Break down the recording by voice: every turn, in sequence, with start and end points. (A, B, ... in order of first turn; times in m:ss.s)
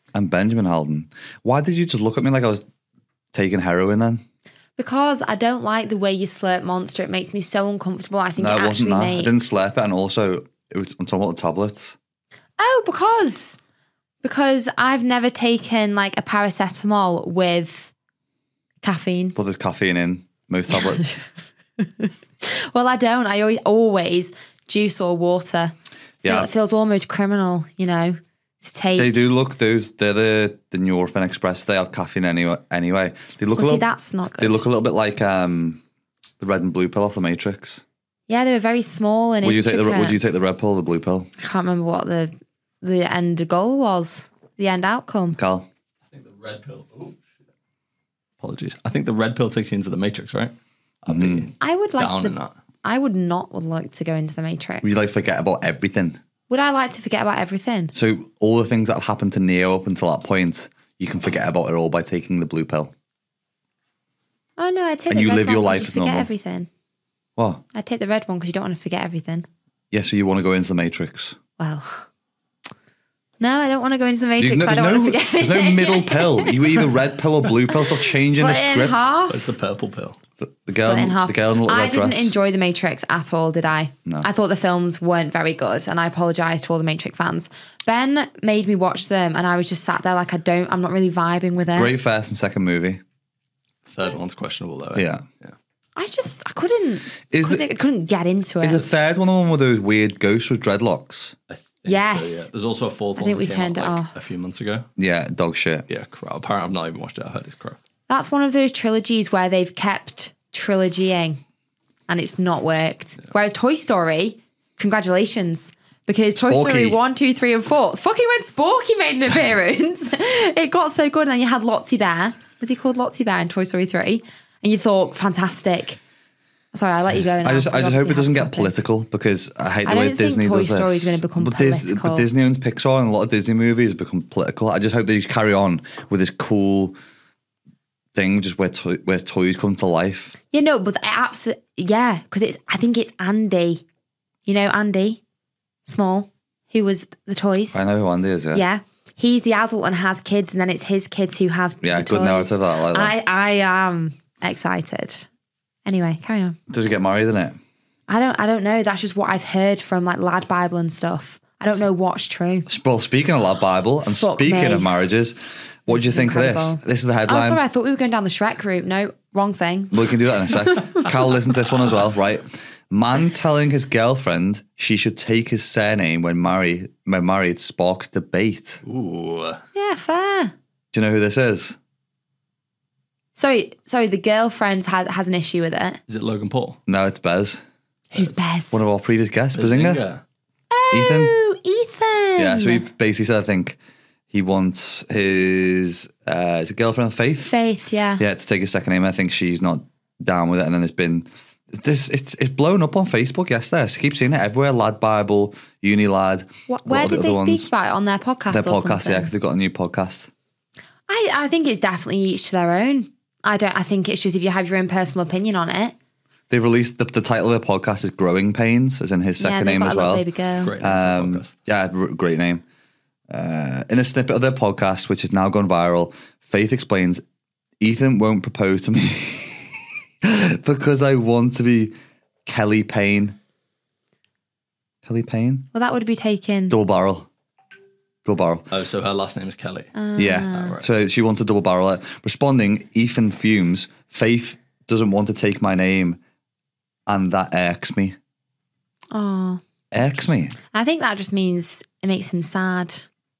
0:00.1-0:02.6 A
0:03.3-0:04.2 A
0:04.8-0:09.6 B
0:08.4-0:12.0 A
0:12.6-0:13.6 B
0:14.2-0:17.9 B
0:18.8-0:19.4 B
0:19.4-0:21.2 A
0:21.8-0:29.2 B
0:26.2-0:26.5 A
0:29.0-0:33.8 A
0:33.6-0:34.6 B
0:34.4-0:35.8 A
0:36.4-0:37.8 A
0:38.3-0:40.2 B
0:39.4-0:41.3 A
0:41.4-0:45.4 B
0:45.3-0:45.7 A
0:46.1-0:47.2 C
0:48.4-0:50.5 C
0:51.0-0:52.5 C
0:51.1-0:51.5 A
0:51.6-0:55.1 B
0:54.8-0:56.2 A
0:56.5-0:57.9 B
0:57.9-1:02.9 A
1:04.6-1:06.7 B
1:05.1-1:06.3 A
1:07.4-1:07.6 A
1:07.7-1:09.5 B
1:09.9-1:11.4 A
1:11.6-1:12.1 B
1:13.4-1:16.8 B
1:14.4-1:19.0 A
1:17.9-1:19.5 B
1:19.3-1:20.2 C
1:20.4-1:22.3 A
1:20.7-1:31.9 B
1:31.7-1:33.0 A
1:33.9-1:35.5 C
1:34.9-1:35.2 A
1:36.0-1:38.8 B
1:37.3-1:37.6 A
1:38.6-1:41.3 A
1:41.5-1:44.9 C
1:41.8-1:42.5 B
1:43.2-1:44.1 B
1:45.0-1:45.9 A
1:45.9-1:47.8 C
1:48.1-1:51.4 B
1:52.1-2:06.0 B
1:56.5-1:57.0 A
2:06.7-2:08.7 B
2:07.4-2:16.9 A
2:09.8-2:12.2 B
2:18.1-2:20.3 A
2:20.5-2:23.8 B
2:24.4-2:25.2 B
2:25.8-2:27.8 B
2:27.7-2:28.6 A
2:28.5-2:35.3 B
2:31.8-2:33.1 A
2:35.8-2:36.6 B
2:36.7-2:37.6 A
2:38.1-2:42.7 B
2:42.7-2:47.6 A
2:44.1-2:44.9 B
2:45.9-2:51.1 B
2:49.9-2:58.8 A
2:58.8-2:59.6 C
2:59.7-3:00.5 B
3:00.9-3:01.8 A
3:03.4-3:06.0 B
3:06.1-3:06.8 C
3:06.9-3:07.6 A
3:08.1-3:08.8 B
3:08.7-3:10.0 A
3:09.5-3:10.2 C
3:10.7-3:12.8 B
3:10.9-3:11.3 A
3:12.4-3:13.8 A
3:14.3-3:17.5 A
3:17.4-3:18.2 B
3:18.2-3:27.7 A
3:26.7-3:29.3 B
3:28.5-3:30.3 A
3:31.1-3:35.9 B
3:36.5-3:40.2 A
3:39.4-3:40.7 B
3:40.6-3:41.5 C
3:40.8-3:42.6 A
3:43.3-3:47.2 A
3:47.8-3:51.9 A
3:52.4-3:53.4 A
3:55.0-3:55.7 A
3:55.7-3:56.8 B
3:56.7-3:57.3 A
3:58.2-3:58.7 A
3:58.7-3:59.9 C
3:59.9-4:00.8 B
4:00.2-4:06.2 A
4:00.5-4:00.8 C
4:07.1-4:08.2 A
4:09.1-4:09.6 B
4:09.9-4:10.5 A
4:10.7-4:13.1 B